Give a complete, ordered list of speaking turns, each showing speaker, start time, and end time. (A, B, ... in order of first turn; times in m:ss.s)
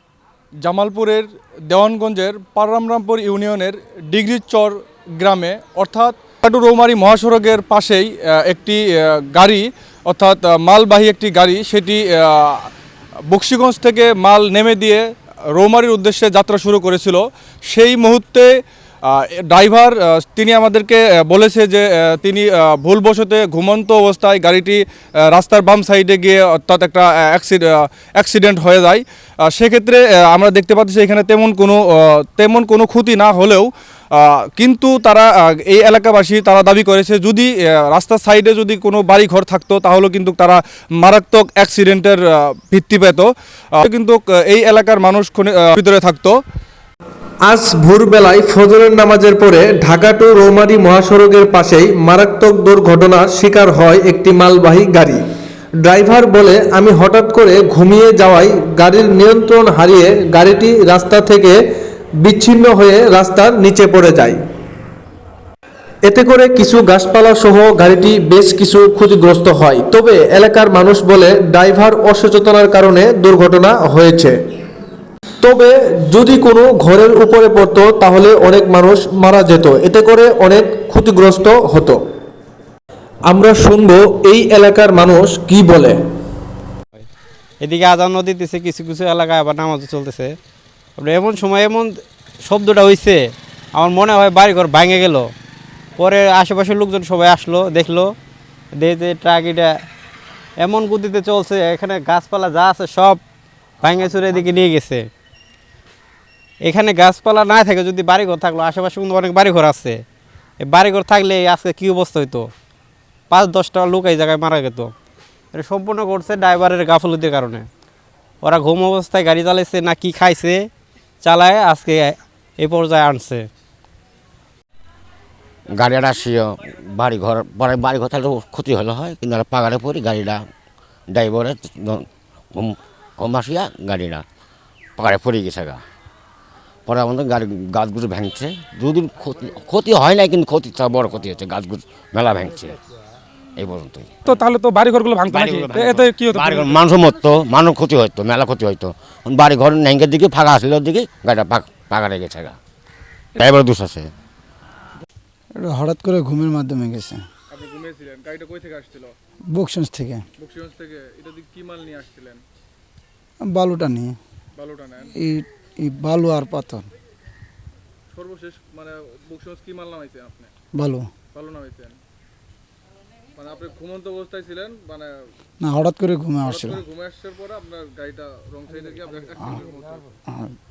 0:00.6-0:12.7 A
0:13.3-0:18.5 A
0:19.1-0:24.8 A
0:25.3-0:46.4 A
0:47.5-0:55.2 B
0:55.8-1:01.6 B
1:02.2-1:04.4 B
1:06.1-1:14.4 B
1:15.4-1:22.0 B
1:23.3-1:26.0 B
1:27.6-1:30.3 C
1:31.0-1:31.9 C
1:32.4-1:35.3 C
1:36.0-1:38.1 C
1:38.8-1:39.8 C
1:40.6-1:43.2 C
1:43.8-1:45.1 C
1:46.6-1:50.0 C
1:50.6-1:52.5 C
1:53.3-1:54.9 C
1:55.5-1:57.7 C
1:58.4-2:00.7 C
2:01.2-2:03.5 C
2:05.7-2:10.4 D
2:11.1-2:14.2 D
2:15.0-2:15.8 D
2:16.9-2:22.8 D
2:23.6-2:24.1 D
2:24.3-2:26.8 E
2:25.3-2:32.6 D
2:33.4-2:34.1 D
2:35.6-2:37.2 F
2:37.5-2:39.1 A
2:39.5-2:40.2 F
2:40.4-2:42.4 A
2:43.5-2:44.2 F
2:44.6-2:45.1 A
2:45.2-2:46.8 F
2:48.1-2:50.5 A
2:50.8-2:51.1 F
2:51.3-2:52.0 A
2:53.4-2:55.1 A
2:55.6-2:56.8 F
2:56.4-3:00.1 A